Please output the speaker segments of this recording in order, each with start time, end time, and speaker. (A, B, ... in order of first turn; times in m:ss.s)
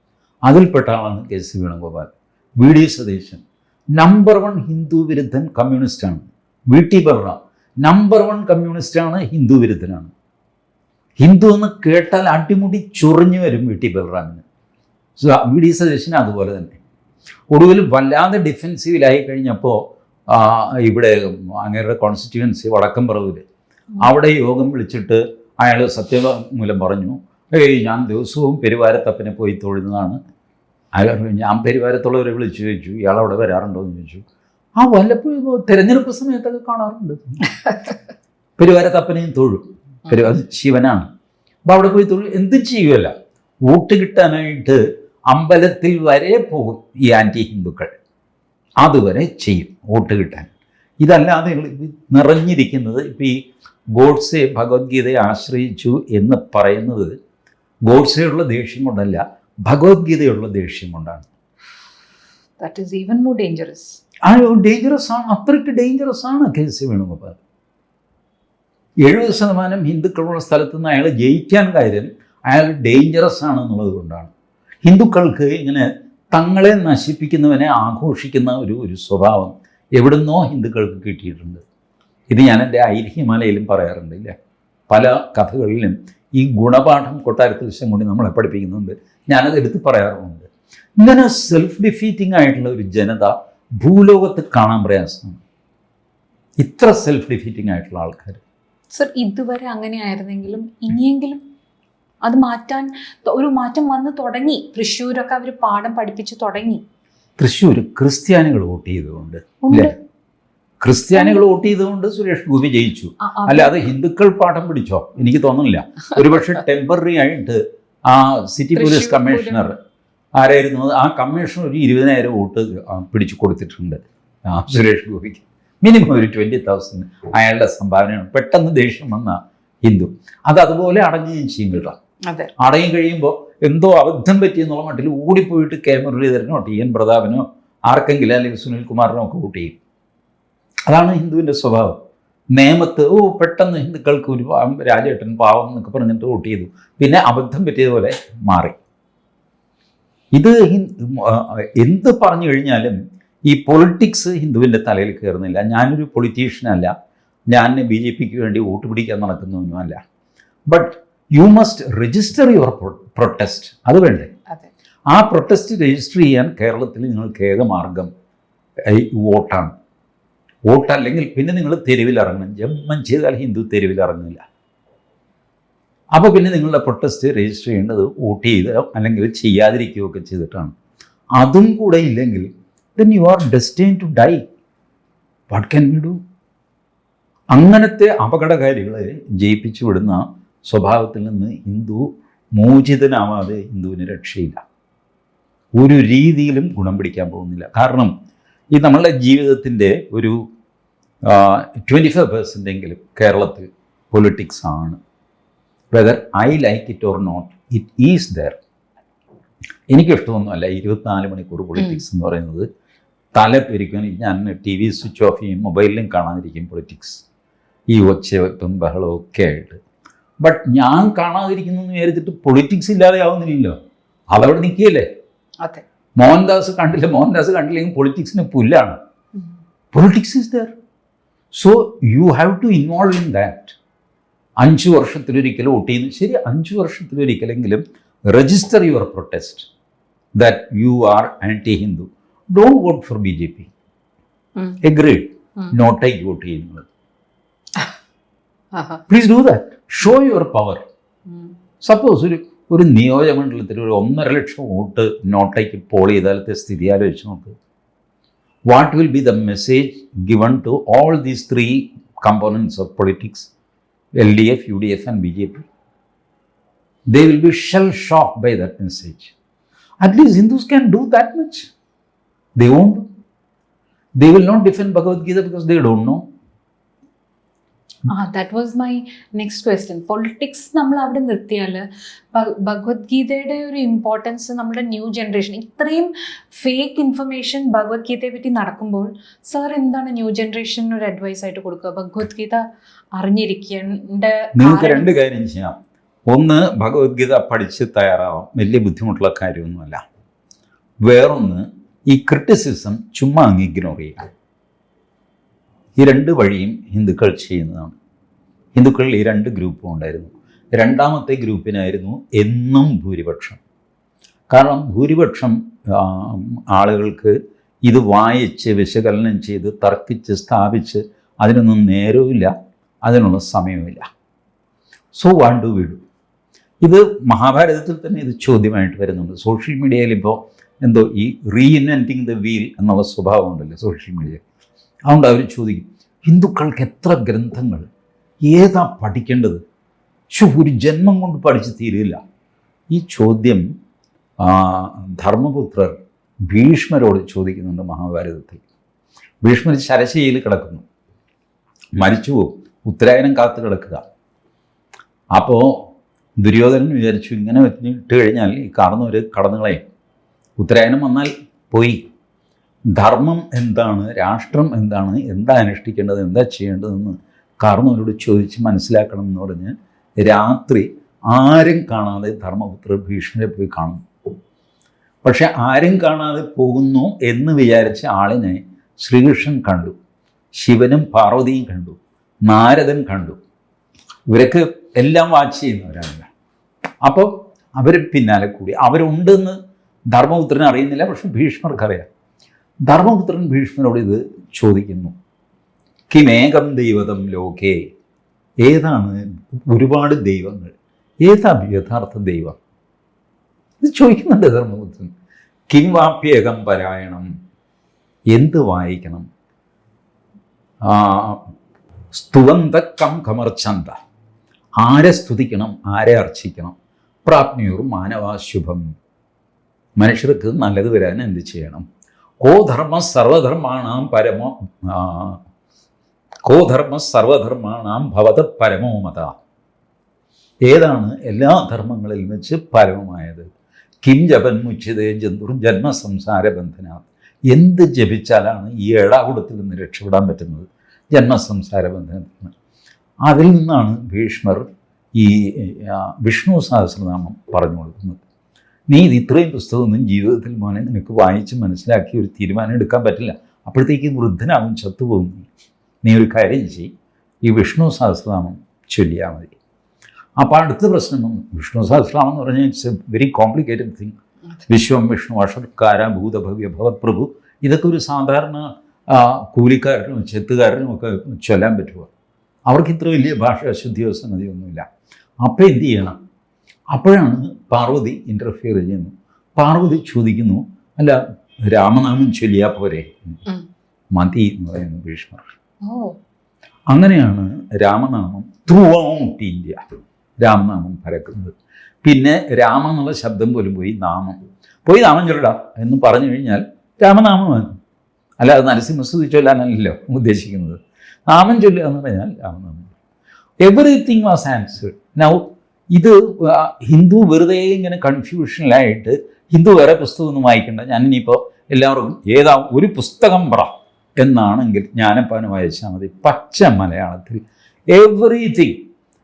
0:00.5-0:10.1 A
0:11.2-0:14.4 A
0:15.2-0:16.8 A
0:17.5-0:23.4 A
0:24.0-0:30.2 A
0:31.0-0:34.2 A
0:34.8-0:37.4 A
0:38.6-0:41.1 A
0:41.7-0:43.1 A
0:43.6-0:47.9 A
0:48.8-0:50.5 A
0:51.0-0:53.3 A
0:54.0-0:57.2 A
0:57.9-1:01.3 A
1:02.6-1:04.0 B
1:04.3-1:07.4 A
1:09.0-1:14.3 A
1:14.8-1:21.6 A
1:22.3-1:24.4 A
1:24.9-1:30.5 A
1:31.0-1:35.4 A
1:36.6-1:38.4 A
1:38.9-1:41.4 B
1:42.2-1:46.8 B
1:47.4-1:49.9 A
1:49.6-1:49.9 B
1:50.8-1:59.8 A
1:51.1-1:51.4 B
1:53.2-1:53.8 B
1:58.8-1:59.7 B
2:00.4-2:12.0 A
2:12.6-2:19.8 A
2:20.9-2:22.0 A
2:22.6-2:28.8 A
2:30.3-2:36.9 A
2:37.5-2:40.0 A
2:40.7-2:44.3 A
2:45.1-2:48.1 A
2:48.9-2:49.7 A
2:50.7-2:54.4 A
2:56.1-3:00.7 A
3:01.4-3:04.4 A
3:05.5-3:06.2 A
3:07.5-3:12.0 A
3:12.6-3:14.6 A
3:15.8-3:18.1 A
3:18.7-3:20.4 A
3:21.2-3:25.0 A
3:25.9-3:28.6 A
3:29.9-3:32.7 A
3:31.8-3:32.0 B
3:33.4-3:37.2 A
3:37.9-3:39.8 A
3:40.4-3:43.8 A
3:44.3-3:45.1 A
3:46.2-3:49.0 A
3:49.9-3:50.7 A
3:51.5-3:53.8 A
3:54.6-3:59.7 A
4:00.4-4:03.7 A
4:04.8-4:06.9 A
4:08.7-4:09.0 B
4:09.1-4:10.8 A
4:11.3-4:11.5 B
4:11.8-4:17.6 A
4:18.7-4:23.5 A
4:24.2-4:25.7 A
4:27.1-4:29.3 A
4:30.0-4:31.7 A
4:32.6-4:33.1 A
4:34.2-4:36.2 A
4:38.1-4:52.6 B
4:53.2-4:55.1 B
4:54.6-4:55.8 A
4:56.3-5:00.0 A
5:01.0-5:04.3 A
5:06.0-5:08.0 A
5:08.8-5:13.6 A
5:14.5-5:22.5 A
5:23.0-5:24.1 A
5:25.2-5:26.0 A
5:26.8-5:34.4 A
5:35.1-5:37.9 A
5:38.4-5:39.6 A
5:40.3-5:42.2 A
5:42.9-5:43.6 A
5:44.4-5:46.0 A
5:46.5-5:48.6 A
5:49.4-5:50.8 A
5:52.0-5:54.0 A
5:55.3-5:55.8 A
5:56.4-5:59.8 A
6:00.6-6:02.0 A
6:03.0-6:14.0 A
6:15.2-6:20.0 A
6:20.5-6:23.4 A
6:24.3-6:26.3 A
6:27.0-6:29.6 A
6:30.1-6:32.1 A
6:32.9-6:35.2 A
6:36.1-6:37.8 A
6:38.6-6:42.6 A
6:43.8-6:45.1 A
6:45.7-6:47.3 A
6:48.3-6:49.3 A
6:50.8-6:51.4 A
6:52.1-6:54.0 A
6:54.8-6:58.8 A
7:00.0-7:01.8 A
7:02.4-7:05.4 A
7:06.5-7:09.3 A
7:10.6-7:13.5 A
7:14.0-7:22.5 A
7:23.3-7:28.2 A
7:28.9-7:35.5 A
7:36.0-7:36.9 A
7:37.4-7:39.5 A
7:40.4-7:44.2 A
7:44.7-7:52.1 A
7:52.7-7:54.8 A
7:55.4-7:56.2 A
7:56.9-8:03.4 A
8:04.1-8:05.5 A
8:05.8-8:06.1 B
8:06.9-8:09.8 A
8:10.4-8:17.7 A
8:18.4-8:22.9 A
8:23.6-8:38.8 A